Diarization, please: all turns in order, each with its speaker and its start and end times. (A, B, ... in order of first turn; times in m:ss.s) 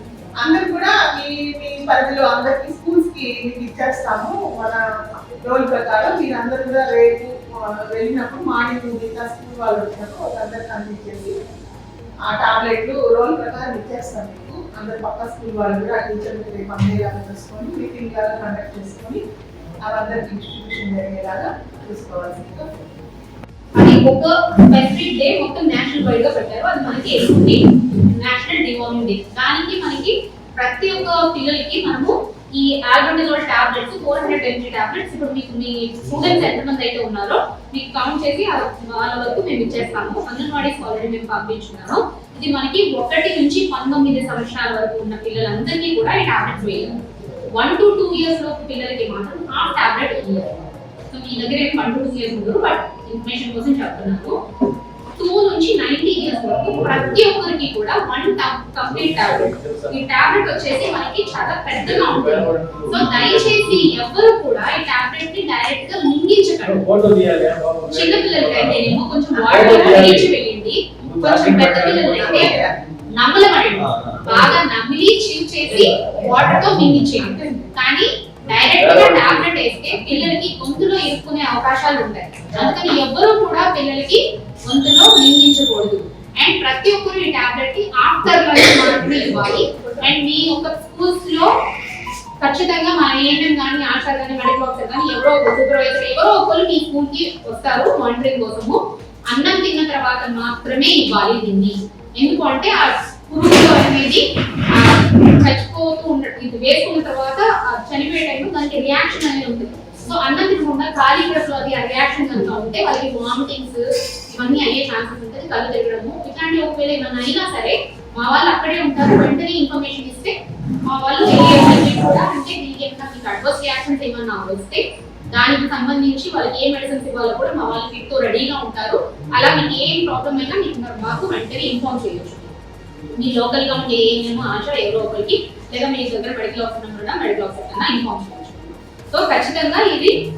0:00.4-0:04.9 A
0:05.4-0:11.4 A
0:12.3-0:19.2 A
0:19.8-0:22.7 A
0:23.8-0:47.0 B
0:47.6-0:50.6 B
0:51.1-0:54.4 B
0:55.2-1:06.8 B
0:56.7-0:57.2 C
0:58.9-1:00.3 C
1:01.8-1:03.9 C
1:06.6-1:08.9 C
1:07.9-1:12.5 B
1:09.5-1:10.3 C
1:09.6-1:09.9 A
1:11.0-1:12.6 C
1:12.1-1:12.8 A
1:13.2-1:31.5 B
1:13.8-1:14.4 C
1:17.2-1:17.7 A
1:18.5-1:19.6 C
1:28.8-1:30.1 A
1:32.4-1:38.8 B
1:39.3-2:00.3 B
2:00.8-2:12.5 B
2:13.2-2:20.1 B